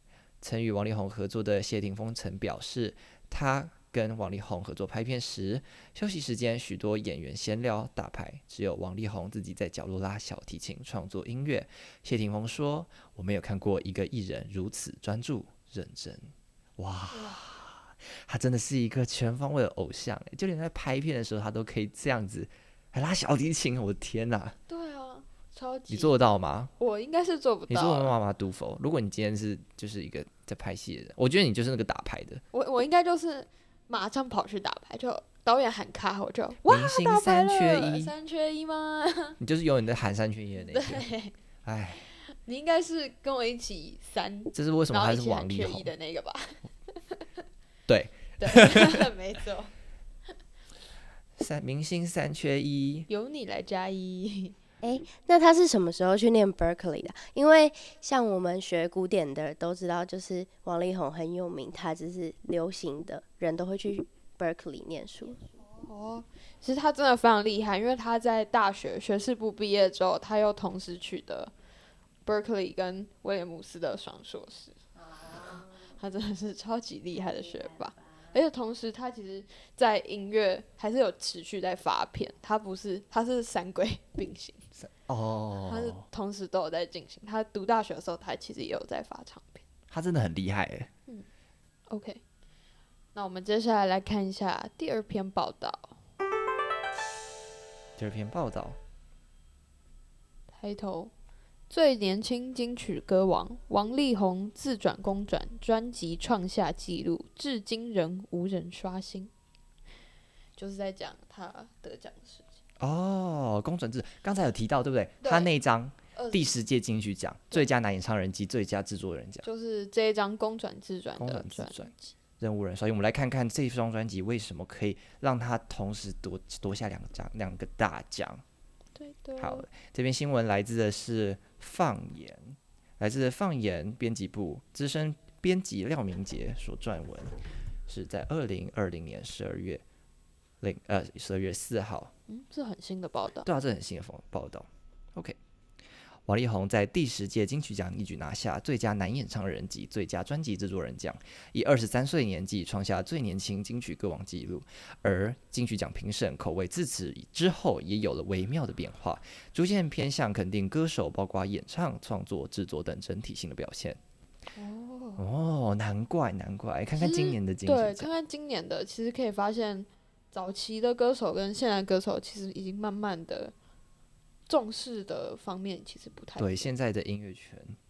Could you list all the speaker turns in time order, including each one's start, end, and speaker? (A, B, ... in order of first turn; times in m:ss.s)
0:00.4-0:24.6 A
0:17.1-0:17.4 B
0:24.7-0:26.2 B
0:25.9-0:26.7 A
0:26.8-0:28.2 B
0:27.7-0:32.4 A
0:32.5-0:39.4 B
0:36.6-0:38.1 A
0:39.4-0:41.0 A
0:40.6-0:41.4 B
0:41.6-0:42.1 A
0:42.1-0:47.3 B
0:44.5-0:45.9 A
0:47.9-0:49.1 A
0:48.4-0:49.7 B
0:51.4-0:53.1 A
0:53.1-0:54.6 B
0:54.8-1:05.4 C
1:05.8-1:11.5 B
1:12.2-1:14.8 B
1:15.3-1:24.7 B
1:24.8-1:26.1 A
1:25.6-1:29.6 B
1:29.9-1:30.9 A
1:31.9-1:32.2 B
1:33.1-1:36.0 B
1:38.0-1:38.8 A
1:40.5-1:41.1 B
1:41.7-1:49.3 B
1:50.6-1:52.5 B
1:52.8-1:59.4 A
1:55.2-1:55.5 B
1:56.2-1:56.6 B
1:59.4-2:02.1 B
2:01.2-2:08.4 A
2:09.0-2:09.7 B
2:09.4-2:19.8 A
2:20.6-2:22.1 A
2:22.3-2:23.5 B
2:23.4-2:25.4 A
2:26.3-2:44.0 A
2:44.5-2:45.2 B
2:45.2-2:48.1 A
2:47.0-2:53.5 B
2:54.5-2:56.7 B
2:56.4-2:57.8 A